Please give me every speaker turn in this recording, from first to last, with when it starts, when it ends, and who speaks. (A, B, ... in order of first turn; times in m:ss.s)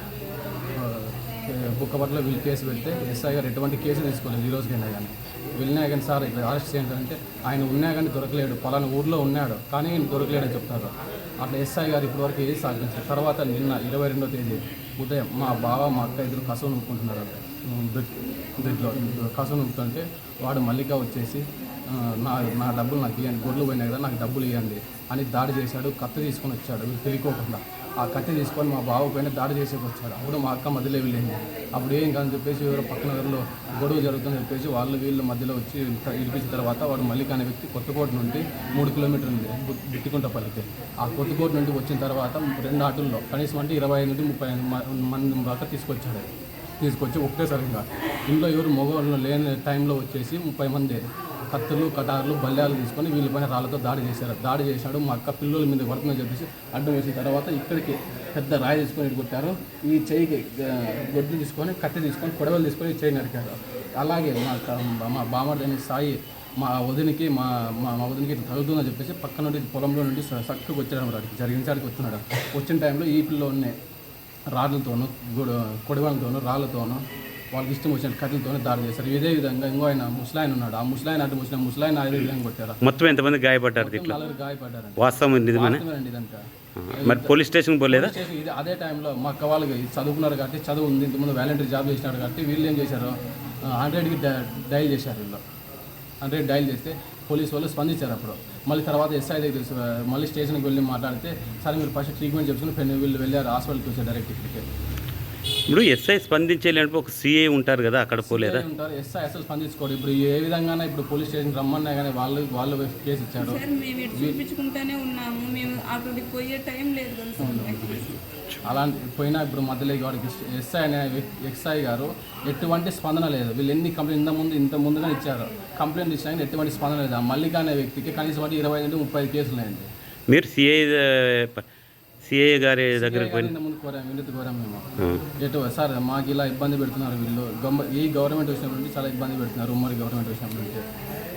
0:00.8-0:46.3 A
0:46.8-1:13.7 A
1:14.5-1:26.4 A
1:22.8-1:24.2 B
1:25.0-1:25.8 B
1:26.8-1:28.2 B
1:26.9-1:33.2 A
1:33.7-1:35.4 A
1:36.2-1:44.6 A
1:45.7-1:48.6 B
1:48.2-1:53.6 A
1:53.4-1:58.0 C
1:54.1-1:54.4 A
1:57.4-1:58.1 A
1:58.0-1:58.6 B
1:58.6-2:09.9 A
2:10.3-2:11.6 B
2:12.2-2:13.6 B
2:12.9-2:14.8 A
2:15.4-2:20.8 A